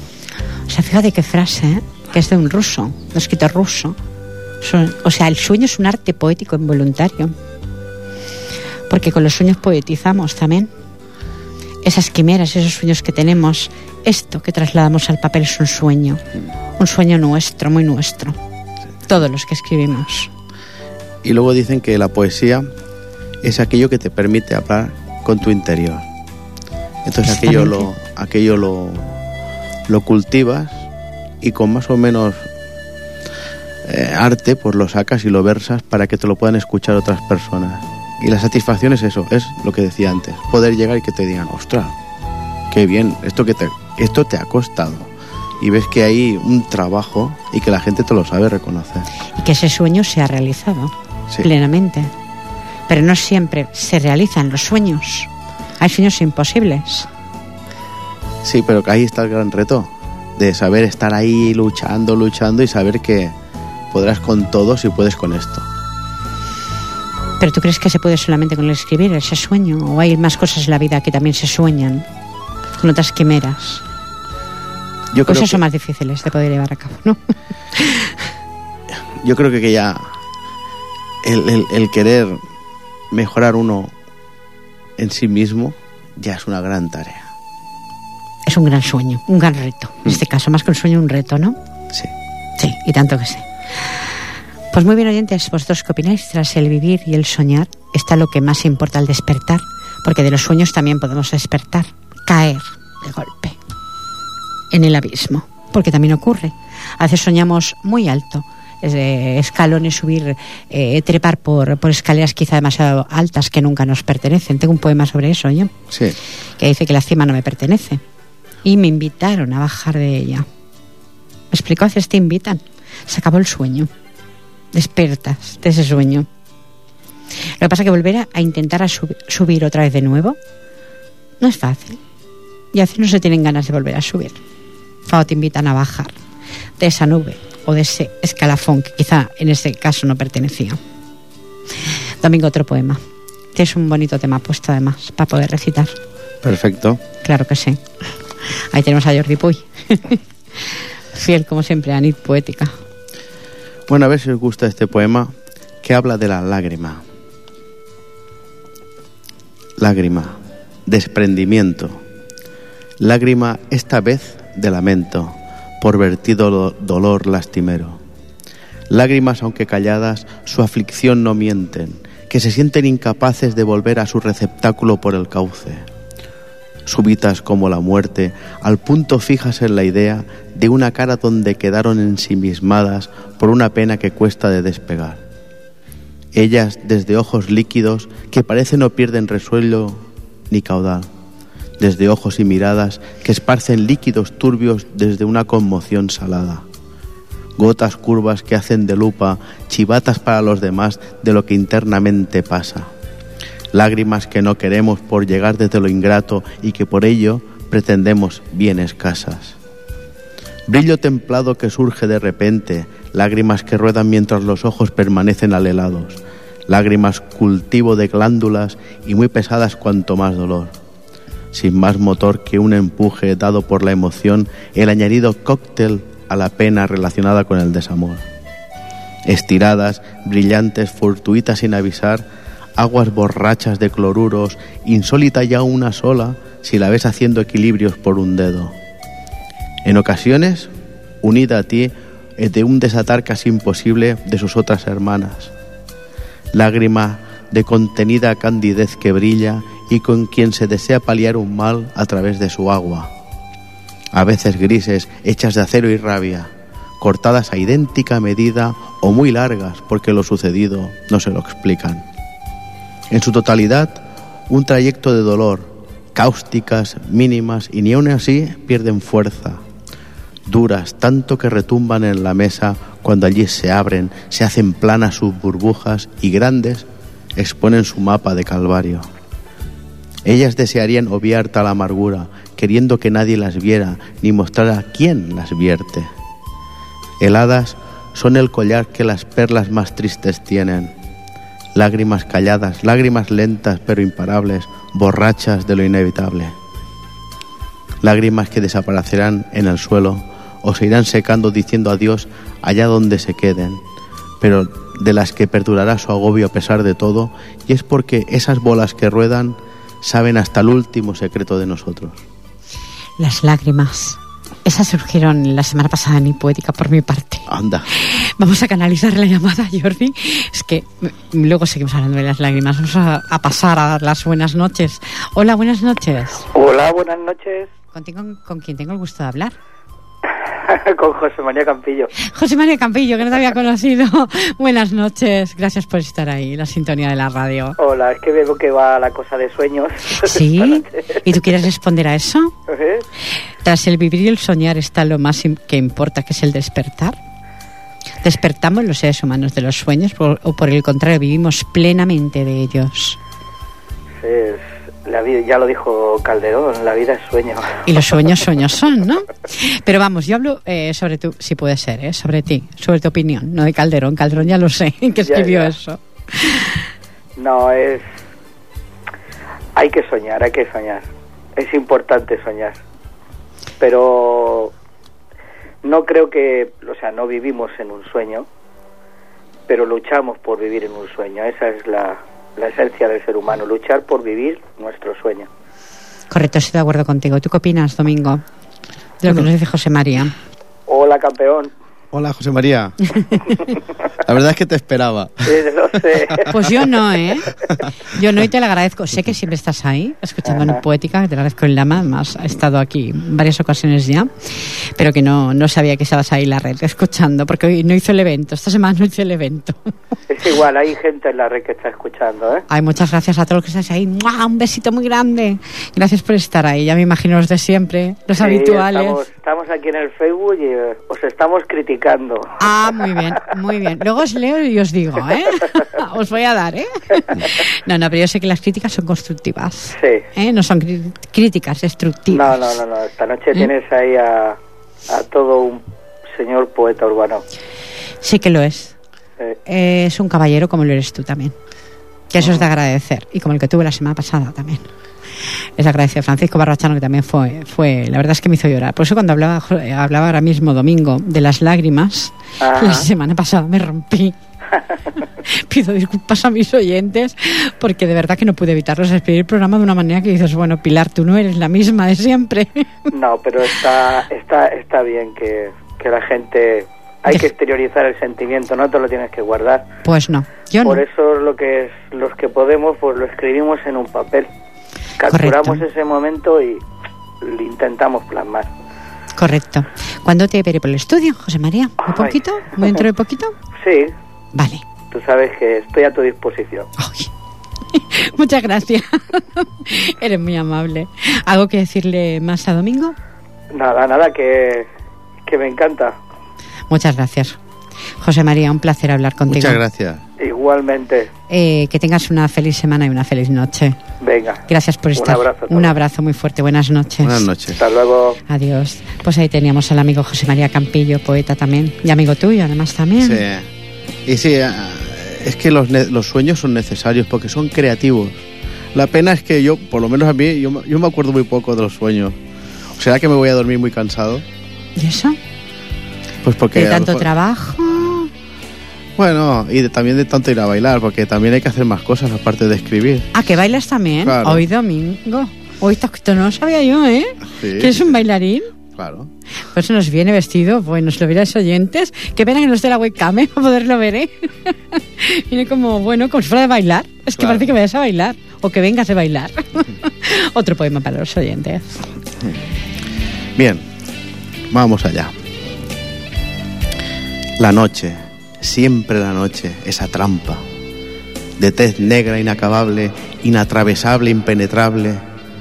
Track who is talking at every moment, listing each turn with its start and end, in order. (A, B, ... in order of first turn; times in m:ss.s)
0:00.7-0:04.0 A
0:04.6-0:07.4 A
0:08.9-0:10.7 A
0:11.8-0:16.2 A
0:16.8-0:18.4 A
0:19.1-0:20.3 A
0:21.2-0:22.7 B
0:23.4-0:26.1 B
0:27.0-0:29.2 B
0:27.2-0:27.9 A
0:29.9-0:30.9 B
0:31.4-0:32.4 B
0:33.8-0:42.0 B
0:42.7-0:49.1 B
0:49.3-0:52.1 A
0:52.9-0:57.1 A
0:58.4-1:03.4 B
1:03.9-1:05.7 B
1:07.4-1:12.1 A
1:12.8-1:13.8 A
1:15.1-1:15.6 B
1:15.3-1:18.2 A
1:19.2-1:20.2 B
1:21.2-1:22.4 B
1:23.1-1:23.9 B
1:25.0-1:27.3 B
1:28.5-1:31.6 A
1:32.6-1:33.9 A
1:34.7-1:43.6 A
1:44.7-1:55.7 A
1:55.9-1:56.2 B
1:56.6-1:58.0 A
1:58.6-2:00.5 A
2:01.5-2:03.9 A
2:04.7-2:06.3 A
2:07.6-2:10.4 A
2:11.4-2:12.0 A
2:12.7-2:14.4 A
2:15.1-2:16.1 A
2:16.8-2:20.8 A
2:22.2-2:23.0 A
2:23.5-2:25.9 A
2:26.4-2:27.0 B
2:27.2-2:27.8 A
2:28.4-2:32.8 A
2:33.9-2:37.0 B
2:39.8-2:42.0 B
2:43.0-2:48.0 B
2:48.9-2:55.9 B
2:56.9-3:05.2 B
3:06.3-3:11.1 B
3:11.8-3:16.6 B
3:17.6-3:22.9 B
3:23.7-3:29.6 B
3:30.7-3:40.7 B
3:41.5-3:48.2 B
3:49.3-3:52.3 B
3:52.8-3:58.8 B
3:59.8-4:00.7 B
4:01.2-4:05.5 B
4:06.5-4:13.1 B
4:14.1-4:22.0 B
4:23.1-4:29.6 B
4:30.5-4:39.1 B
4:40.2-4:46.1 B
4:47.2-4:50.9 B
4:51.8-4:56.6 B
4:58.0-5:03.8 B
5:04.4-5:12.2 B
5:13.2-5:26.5 A
5:17.5-5:17.9 B
5:26.5-5:27.7 C
5:27.9-5:29.6 A
5:30.6-5:32.1 C
5:32.2-5:37.8 A
5:37.8-5:40.8 C
5:40.1-5:42.5 A
5:42.7-5:43.0 C
5:43.6-5:47.2 A
5:48.2-5:53.2 A
5:54.2-5:57.8 C
5:57.9-6:06.8 A
6:05.3-6:05.7 C
6:07.4-6:08.0 C
6:09.8-6:12.8 C
6:13.8-6:14.7 C
6:15.8-6:18.5 C
6:19.7-6:25.5 C
6:26.3-6:28.4 A
6:29.2-6:30.3 A
6:30.9-6:31.7 C
6:32.1-6:36.5 B
6:35.5-6:36.7 C
6:36.5-6:37.6 A
6:38.1-6:49.9 A
6:40.5-6:40.8 C
6:50.3-6:52.7 C
6:52.7-6:59.2 A
6:58.4-7:03.3 C
7:02.6-7:12.7 A
7:10.0-7:10.3 C
7:12.3-7:14.6 C
7:15.1-7:15.8 C
7:16.3-7:17.4 C
7:18.2-7:19.0 A
7:19.7-7:21.5 A
7:22.3-7:24.9 A
7:22.4-7:22.6 C
7:25.8-7:34.4 A
7:32.6-7:33.1 C
7:35.4-7:42.9 A
7:43.1-7:49.9 C
7:50.0-7:51.0 A
7:50.8-7:54.5 C
7:55.2-7:56.8 C
7:55.3-7:55.8 A
7:57.4-7:58.7 C
7:59.4-8:03.5 A
8:03.8-8:04.1 C
8:04.5-8:04.8 A
8:05.1-8:06.9 C
8:07.0-8:07.3 A
8:07.9-8:13.2 A
8:13.7-8:14.9 C
8:15.4-8:16.2 C
8:16.9-8:17.6 A
8:18.2-8:19.8 A
8:19.5-8:20.2 B
8:20.4-8:21.3 C
8:21.5-8:24.0 A
8:24.2-8:24.6 C
8:24.7-8:27.4 A
8:25.2-8:26.0 C
8:27.2-8:27.8 B
8:27.8-8:28.4 C
8:28.5-8:33.4 A
8:33.2-8:33.7 B
8:34.3-8:42.4 B
8:42.9-8:44.4 B
8:45.0-8:45.4 A
8:46.4-8:47.3 B
8:46.7-8:48.3 A
8:49.2-8:53.3 B
8:53.3-8:58.7 A
8:54.2-8:54.6 B
8:57.5-8:58.2 B
8:58.9-8:59.3 B
8:59.7-9:12.0 A
9:07.4-9:07.7 B
9:13.6-9:13.8 B
9:14.7-9:15.3 B
9:17.6-9:20.6 B
9:21.6-9:25.2 B